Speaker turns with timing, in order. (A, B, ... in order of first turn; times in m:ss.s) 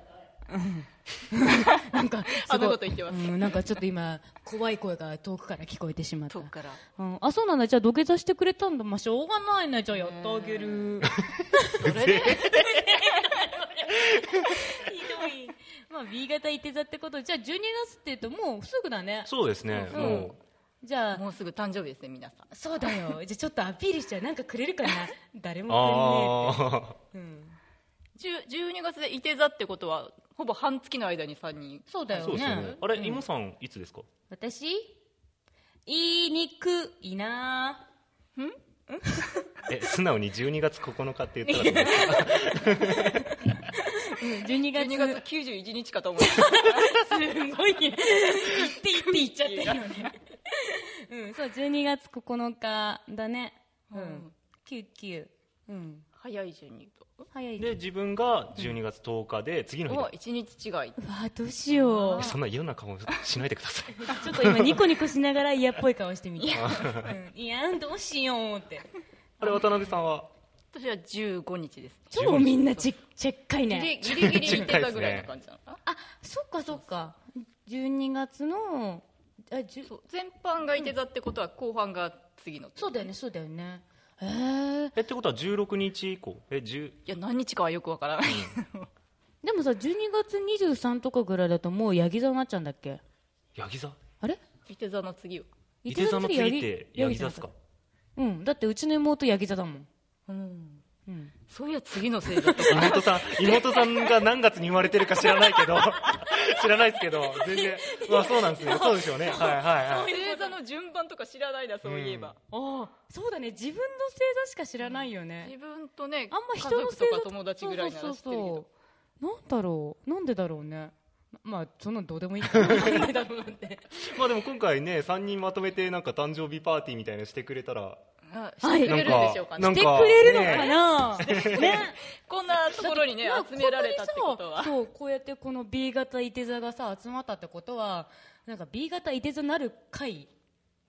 0:00.5-0:21.2 A
0:02.3-0:03.6 B
0:06.3-0:06.8 B
0:10.0-0:10.8 B
0:11.0-0:12.6 C
0:11.8-0:13.2 B
0:14.0-0:14.6 C
0:19.3-0:20.4 C
0:19.9-0:20.3 B
0:21.1-0:22.5 B
0:22.5-0:27.6 A
0:25.7-0:27.0 C
0:28.2-0:32.8 B
0:31.9-0:33.2 A
0:32.2-0:34.1 C
0:34.3-0:34.9 A
0:35.8-0:37.8 A
0:38.9-0:39.4 A
0:39.7-0:43.4 C
0:41.4-0:45.2 A
0:44.7-0:47.0 B
0:46.2-0:56.0 A
0:48.3-0:50.1 B
0:53.9-0:54.3 B
0:56.2-0:57.2 B
0:57.3-0:57.7 A
0:57.6-1:00.1 C
0:59.9-1:01.0 B
1:01.0-1:02.3 A
1:01.7-1:02.4 B
1:02.1-1:04.8 C
1:04.1-1:08.9 A
1:06.4-1:07.1 B
1:06.6-1:07.1 C
1:09.4-1:10.3 C
1:10.7-1:12.9 B
1:12.1-1:14.7 A
1:12.1-1:12.6 C
1:13.7-1:15.8 B
1:14.0-1:15.3 C
1:15.8-1:19.9 A
1:19.8-1:23.1 B
1:22.8-1:24.9 A
1:25.0-1:27.0 C
1:27.0-1:28.9 B
1:28.2-1:28.5 C
1:29.4-1:33.0 A
1:33.5-1:34.0 C
1:34.7-1:35.5 B
1:35.8-1:37.5 A
1:35.8-1:37.5 C
1:38.2-1:39.9 A
1:40.3-1:40.8 B
1:41.1-1:41.3 A
1:41.5-1:44.1 B
1:42.6-1:42.9 A
1:42.7-1:50.1 C
1:45.8-1:46.2 B
1:47.4-1:50.6 A
1:49.8-1:52.4 B
1:51.8-1:52.3 C
1:52.5-1:55.5 A
1:54.8-1:58.7 B
1:56.3-1:58.6 A
1:59.2-2:03.8 A
2:02.5-2:03.1 C
2:03.9-2:08.0 C
2:08.3-2:14.7 B
2:08.6-2:12.0 A
2:08.8-2:11.8 C
2:12.7-2:20.3 A